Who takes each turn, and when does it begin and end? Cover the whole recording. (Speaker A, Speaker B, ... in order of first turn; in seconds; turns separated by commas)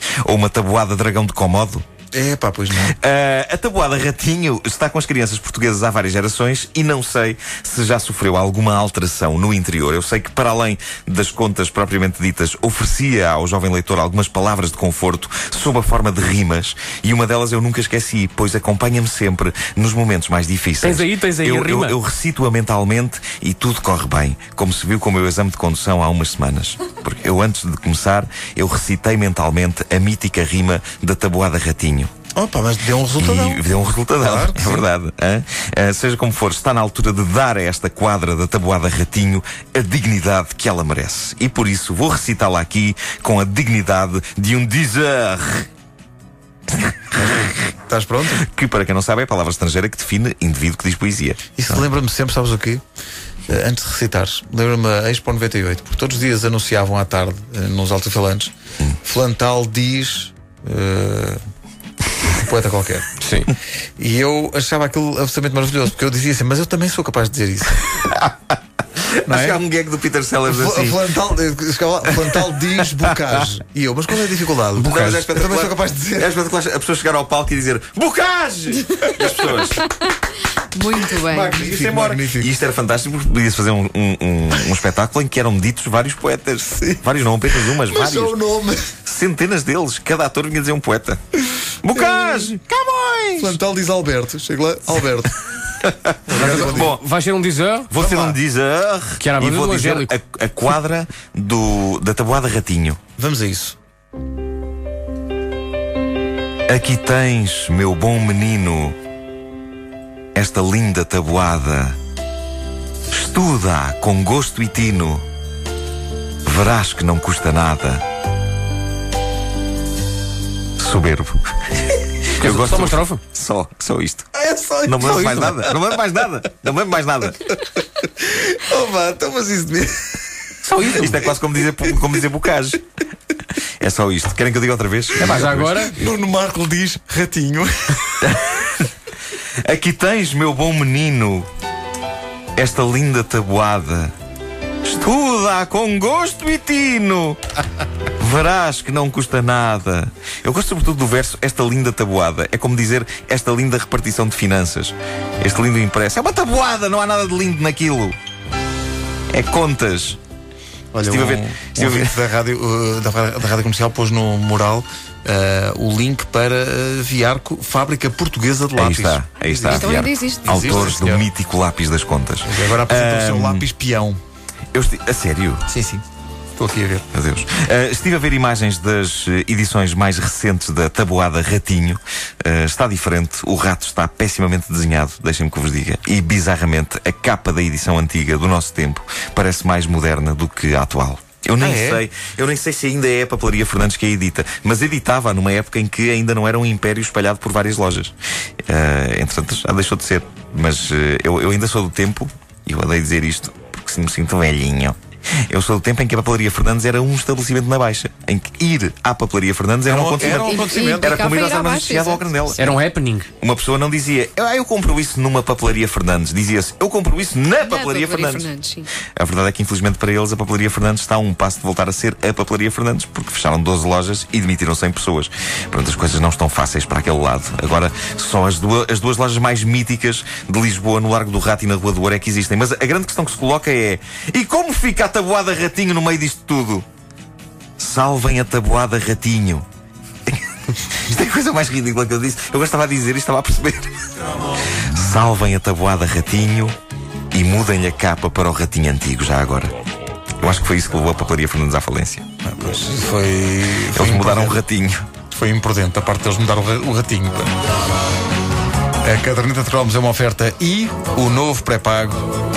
Speaker A: 0.2-1.8, Speaker B: 2.1-2.9, Speaker A: 2.9-32.1, Speaker C: 20.8-21.9, Speaker B: 32.3-34.8, Speaker A: 33.2-45.7, Speaker A: 46.7-47.6, Speaker B: 47.8-48.4, Speaker A: 48.3-51.9, Speaker B: 51.5-52.8, Speaker B: 53.5-61.4, Speaker B: 62.2-63.1, Speaker C: 63.2-63.5, Speaker B: 64.0-67.9, Speaker A: 68.0-71.0, Speaker B: 69.2-69.6, Speaker B: 70.4-76.3, Speaker A: 72.1-73.3, Speaker A: 74.8-79.9, Speaker C: 74.8-75.2, Speaker D: 79.0-80.1, Speaker D: 80.7-81.6, Speaker B: 81.3-82.5, Speaker A: 81.3-88.3, Speaker B: 86.8-87.0, Speaker B: 87.5-88.9, Speaker A: 89.0-91.2, Speaker A: 91.8-93.6, Speaker B: 93.4-95.4, Speaker A: 95.8-97.0, Speaker B: 96.2-97.0, Speaker C: 96.3-97.9, Speaker A: 97.9-103.0, Speaker B: 98.0-98.4, Speaker C: 99.2-100.1, Speaker B: 103.2-103.8, Speaker A: 106.7-108.9, Speaker A: 110.3-112.0, Speaker A: 113.1-115.2, Speaker A: 116.4-118.0, Speaker A: 120.8-124.3, Speaker C: 122.3-123.2, Speaker B: 124.3-125.7, Speaker A: 124.8-127.5, Speaker C: 125.0-125.6, Speaker B: 127.8-130.2, Speaker C: 130.6-131.2, Speaker A: 131.0-132.8, Speaker A: 133.8-135.9, Speaker C: 135.2-136.0, Speaker B: 135.8-138.2, Speaker A: 138.2-138.9, Speaker A: 139.6-141.5, Speaker A: 142.6-144.1, Speaker A: 144.8-147.4, Speaker A: 148.2-158.2, Speaker A: 159.3-160.2, Speaker B: 160.9-171.3, Speaker A: 161.0-162.1, Speaker A: 168.8-173.7, Speaker D: 169.7-170.7, Speaker B: 172.4-174.2, Speaker A: 174.7-175.6, Speaker B: 175.7-176.0, Speaker B: 176.6-177.0, Speaker A: 177.1-198.1, Speaker B: 191.6-192.0, Speaker A: 198.7-204.9, Speaker A: 205.5-212.7, Speaker B: 209.9-211.2, Speaker D: 210.2-212.3, Speaker C: 212.6-213.3, Speaker A: 213.4-218.5, Speaker D: 217.6-218.9, Speaker A: 219.2-236.8, Speaker A: 237.8-239.7, Speaker A: 240.3-244.1, Speaker A: 244.8-246.8, Speaker A: 247.3-249.8, Speaker A: 250.4-252.2, Speaker B: 252.4-254.6, Speaker A: 253.9-255.1, Speaker B: 255.3-257.5, Speaker B: 259.0-262.2